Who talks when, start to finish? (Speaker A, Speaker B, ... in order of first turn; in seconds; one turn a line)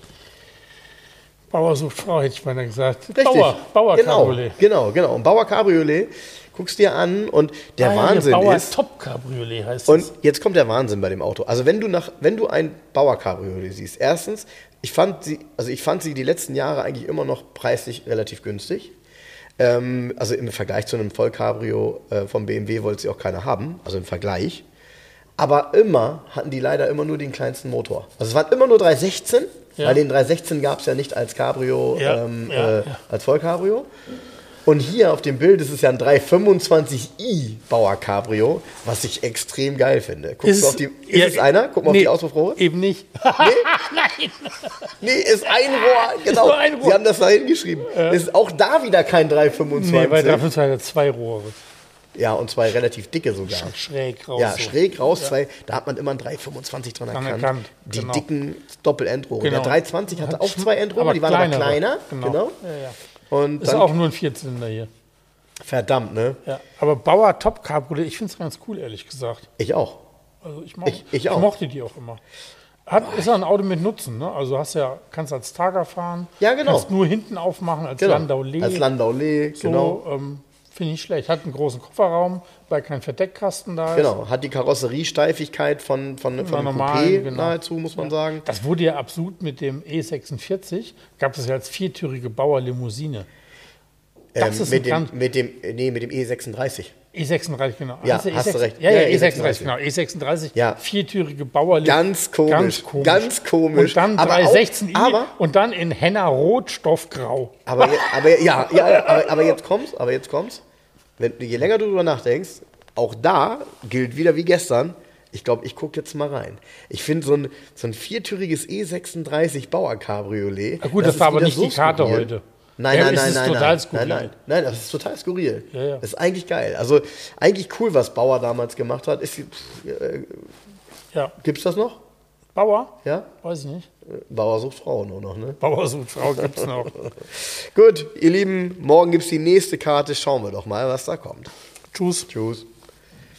Speaker A: 1.5-4.6
Speaker B: 3.1-8.8
Speaker A: 7.8-10.1
Speaker B: 9.9-18.9
Speaker B: 19.6-24.6
Speaker B: 25.4-33.9
Speaker A: 31.9-33.0
Speaker B: 34.7-42.6
Speaker A: 40.4-44.9
Speaker B: 43.4-43.7
Speaker B: 45.0-50.5
Speaker A: 45.9-47.0
Speaker A: 47.9-48.2
Speaker A: 49.7-51.6
Speaker B: 52.1-53.8
Speaker A: 53.5-55.3
Speaker B: 54.4-62.6
Speaker A: 57.1-58.3
Speaker A: 59.4-63.0
Speaker B: 63.3-63.9
Speaker A: 63.6-64.9
Speaker B: 65.6-66.4
Speaker A: 66.5-69.5
Speaker B: 69.6-70.0
Speaker A: 70.4-72.2
Speaker B: 70.8-71.5
Speaker A: 72.9-78.9
Speaker B: 73.0-73.3
Speaker B: 76.4-76.9
Speaker B: 78.0-80.0
Speaker A: 79.6-84.1
Speaker B: 83.9-88.5
Speaker A: 86.4-93.3
Speaker B: 94.3-96.9
Speaker A: 94.4-95.1
Speaker A: 97.1-109.5
Speaker B: 98.0-99.7
Speaker B: 100.5-100.8
Speaker B: 101.8-105.3
Speaker B: 107.7-110.6
Speaker B: 111.2-130.5
Speaker A: 120.8-124.3
Speaker A: 125.7-126.0
Speaker B: 131.4-132.0
Speaker A: 132.6-133.9
Speaker B: 133.0-133.3
Speaker B: 134.1-135.6
Speaker A: 135.6-137.1
Speaker B: 136.2-141.5
Speaker A: 141.9-142.3
Speaker B: 142.3-142.7